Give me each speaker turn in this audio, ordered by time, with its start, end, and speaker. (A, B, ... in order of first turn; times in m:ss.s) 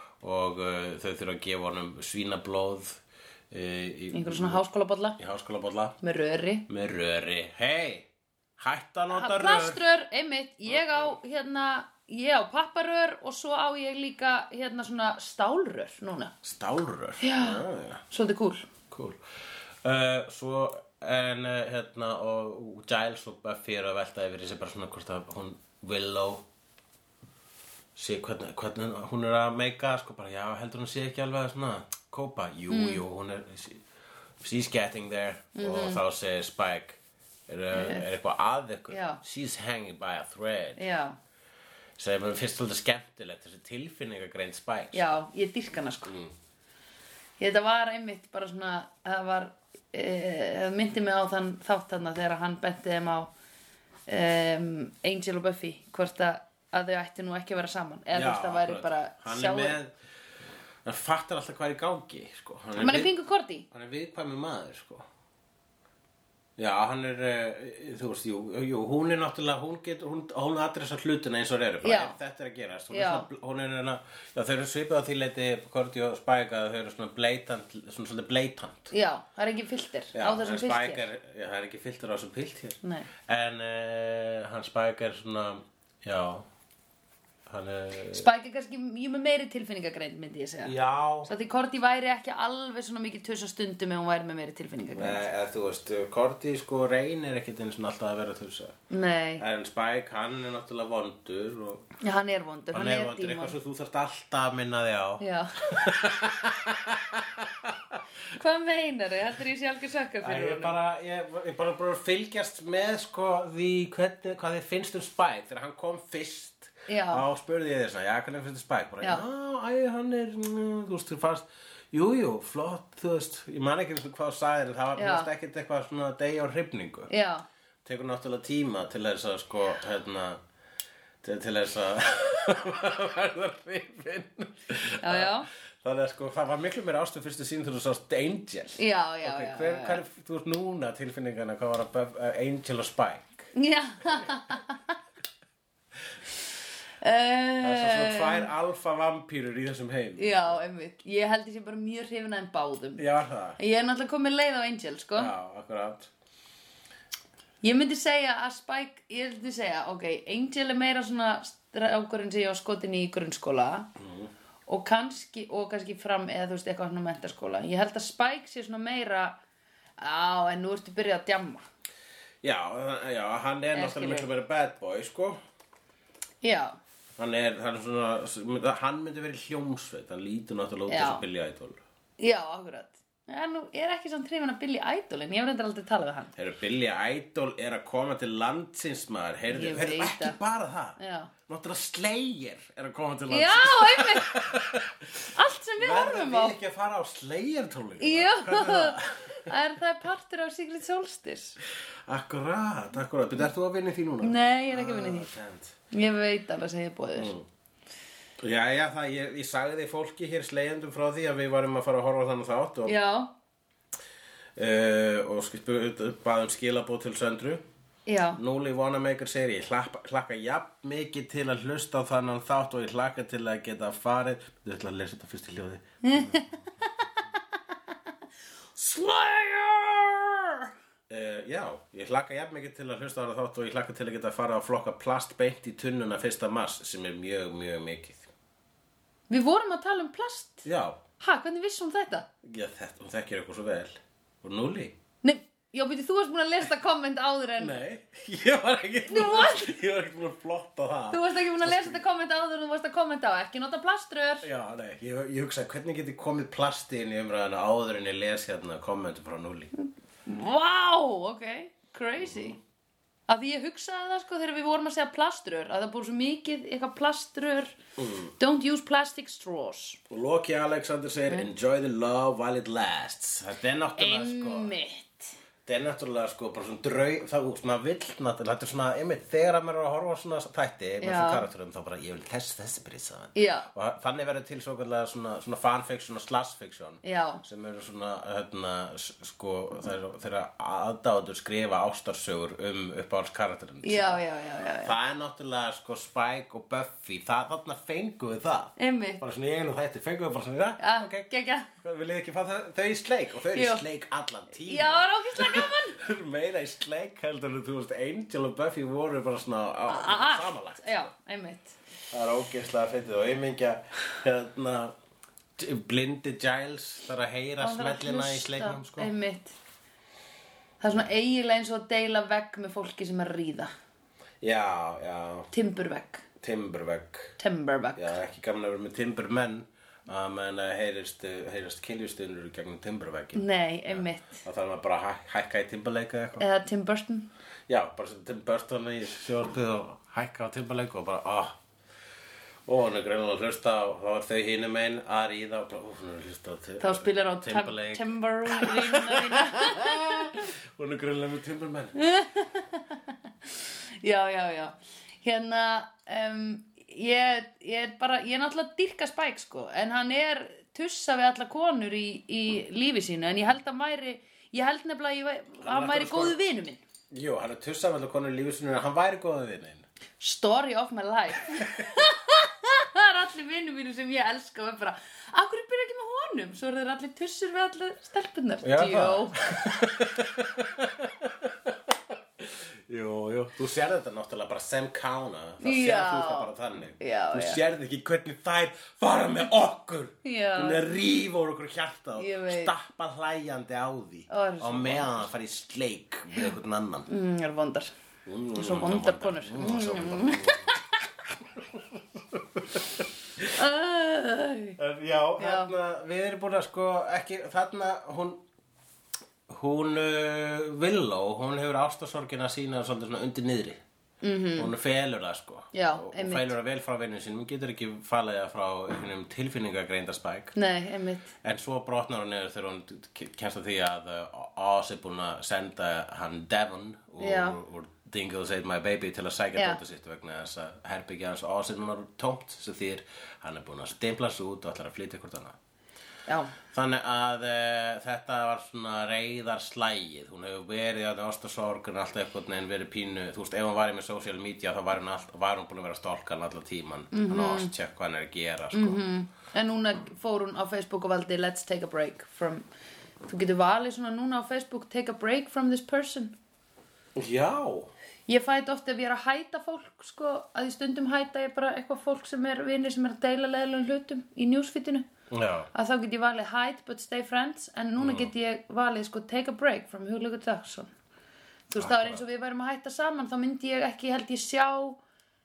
0:00.2-0:04.6 A
0:04.1-0:05.2 B
0:05.2-0:06.0 A
0:06.0-0:06.7 B
0:06.7-0:09.8 A
0:09.1-0:16.3 B
0:10.7-0:11.2 A
0:16.4-0:18.0 A
0:17.2-0:18.7 B
0:18.9-0:19.2 A
0:19.8-0:26.4 A
0:28.0-0:33.8 A
0:32.7-0:33.0 B
0:34.4-0:40.8 A
0:35.6-0:36.0 B
0:37.7-0:38.1 B
0:38.9-0:39.2 B
0:40.8-0:41.2 B
0:42.0-0:45.1 A
0:44.9-0:46.1 B
0:46.0-0:46.3 A
0:47.4-0:53.3 B
0:54.1-0:59.8 B
0:58.1-0:59.9 A
1:00.8-1:03.1 A
1:02.8-1:03.6 B
1:03.7-1:05.0 A
1:06.6-1:18.9 A
1:11.8-1:12.1 B
1:12.9-1:13.3 B
1:18.9-1:21.0 B
1:20.1-1:26.4 A
1:22.8-1:23.1 B
1:27.5-1:28.3 A
1:28.1-1:35.2 B
1:30.6-1:31.3 A
1:35.0-1:38.8 A
1:38.9-1:39.4 B
1:39.4-1:41.9 A
1:42.0-1:43.6 B
1:42.7-1:48.0 A
1:45.2-1:45.8 B
1:48.3-1:50.8 B
1:50.2-2:07.1 A
1:56.9-1:57.2 B
2:05.0-2:05.3 B
2:07.1-2:07.4 B
2:07.8-2:10.4 A
2:11.2-2:23.5 A
2:15.0-2:15.5 B
2:18.8-2:20.0 B
2:23.5-2:25.0 B
2:27.0-2:28.5 B
2:27.6-2:30.6 A
2:30.2-2:33.0 B
2:33.0-2:33.6 A
2:33.6-2:35.3 B
2:35.1-2:36.1 A
2:37.6-2:43.9 B
2:44.0-2:44.3 A
2:44.7-2:49.4 B
2:50.0-2:51.6 B
2:52.4-2:55.4 A
2:53.7-2:54.3 B
2:56.4-2:56.8 B
2:57.2-3:01.8 A
3:00.9-3:01.2 B
3:02.2-3:06.3 B
3:06.4-3:19.5 A
3:09.5-3:10.4 B
3:11.0-3:11.3 B
3:13.3-3:14.4 B
3:15.3-3:16.6 B
3:18.0-3:21.6 B
3:22.0-3:25.8 A
3:24.2-3:25.3 B
3:25.9-3:27.3 B
3:27.2-3:27.4 A
3:28.4-3:33.0 A
3:32.8-3:33.3 B
3:34.6-3:37.6 A
3:38.0-3:38.4 B
3:38.4-3:46.4 A
3:46.0-3:47.2 B
3:48.8-3:49.4 A
3:48.9-3:50.6 B
3:51.1-3:58.3 A
3:59.3-4:00.6 B
4:00.6-4:01.0 A
4:01.2-4:02.3 B
4:02.4-4:05.0 A
4:05.2-4:07.8 B
4:07.6-4:12.0 A
4:09.0-4:09.7 B
4:11.1-4:14.5 B
4:14.4-4:19.7 A
4:19.8-4:22.6 B
4:22.2-4:22.5 A
4:23.3-4:27.8 B
4:28.0-4:28.3 A
4:28.4-4:30.0 B
4:30.1-4:34.7 A
4:34.0-4:35.4 B
4:35.6-4:54.2 A
4:41.0-4:41.4 B
4:43.3-4:43.7 B
4:47.0-4:47.4 B
4:53.8-4:54.9 B
4:54.8-5:01.3 A
4:58.8-4:59.2 B
5:00.8-5:01.7 B
5:01.8-5:11.1 A
5:03.5-5:03.8 B
5:04.6-5:06.0 B
5:09.9-5:11.8 B
5:12.1-5:14.9 A
5:15.6-5:19.1 A
5:17.6-5:19.6 B
5:20.8-5:23.7 B
5:24.4-5:25.5 A
5:25.5-5:26.2 B
5:26.4-5:27.4 A
5:27.4-5:28.1 B
5:28.0-5:36.4 A
5:33.3-5:34.4 B
5:36.4-5:37.3 B
5:37.7-5:41.6 A
5:42.6-5:52.0 A
5:46.8-5:50.4 B
5:52.0-5:53.0 B
5:54.0-6:06.8 B
6:05.6-6:06.4 A
6:07.1-6:09.8 A
6:10.2-6:19.4 B
6:18.6-6:37.1 A
6:25.6-6:27.6 B
6:30.2-6:30.8 B
6:32.2-6:32.7 B
6:34.3-6:35.1 B
6:37.1-6:37.9 B
6:38.2-6:40.8 A
6:38.5-6:40.8 B
6:41.4-6:43.5 A
6:43.5-6:44.8 B
6:44.8-6:48.4 A
6:45.4-6:45.7 B
6:49.5-6:53.8 A
6:54.2-6:54.7 B
6:54.6-7:00.5 A
6:55.7-6:56.5 B
7:00.5-7:01.3 B
7:01.4-7:15.6 A
7:07.2-7:07.6 B
7:16.3-7:16.5 B
7:16.7-7:29.0 A
7:27.1-7:27.7 B
7:28.7-7:32.6 B
7:33.2-7:36.3 B
7:37.2-7:37.9 A
7:38.3-7:45.1 B
7:45.3-7:45.7 A
7:45.7-7:50.9 B
7:48.0-7:48.3 A
7:51.7-7:55.0 B
7:51.8-7:52.2 A